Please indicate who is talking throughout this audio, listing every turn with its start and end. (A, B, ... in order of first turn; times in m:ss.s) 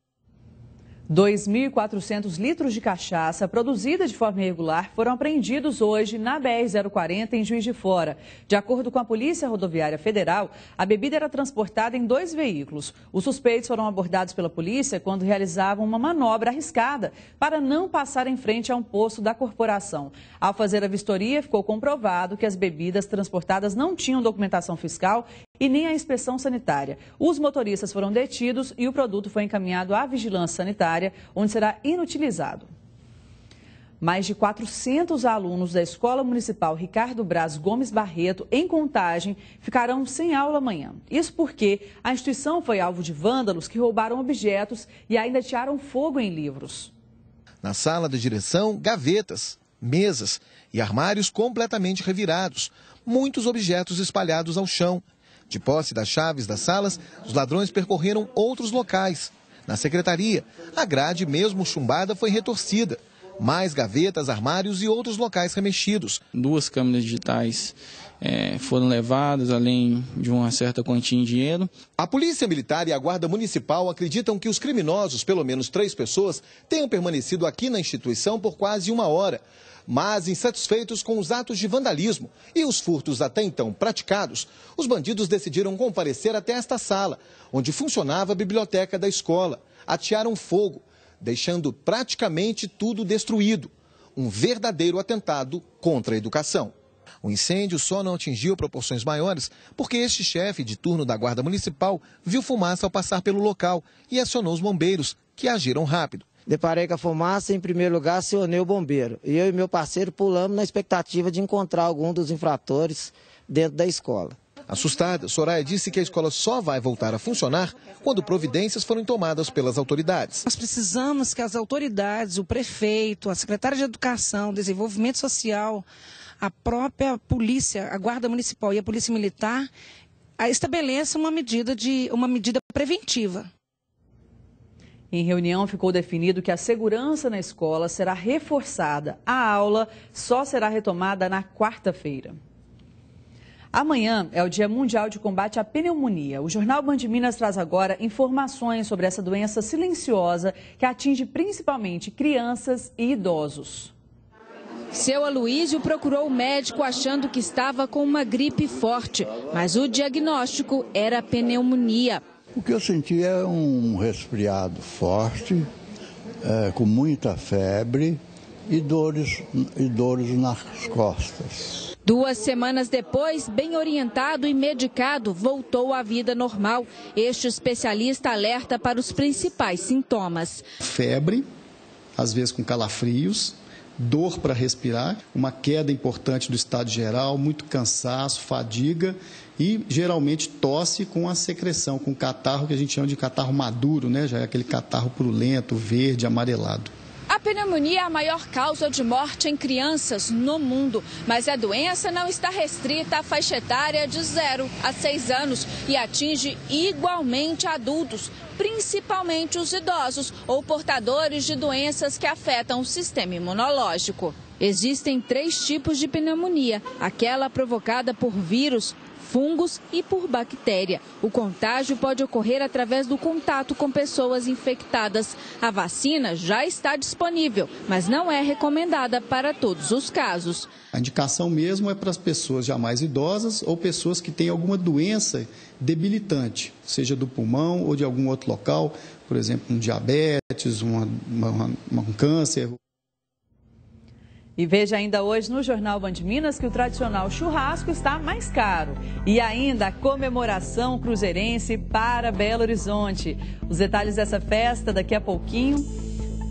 0:01.1-0:32.7 A
0:34.0-0:46.9 A
0:47.6-1:06.2 B
1:06.4-1:11.7 C
1:12.0-1:46.3 B
1:46.5-1:54.4 D
1:54.7-2:00.4 B
2:00.5-2:05.8 E
2:06.4-2:09.7 E
2:10.4-2:13.5 E
2:15.1-2:22.4 A
2:23.7-2:33.9 A
2:34.9-2:42.2 F
2:42.6-2:45.7 G
2:46.4-2:51.8 G
2:52.0-3:00.6 F
3:00.8-3:01.4 H
3:02.2-3:16.9 H
3:17.3-3:50.7 F
3:50.9-4:02.8 H
4:04.6-4:15.9 A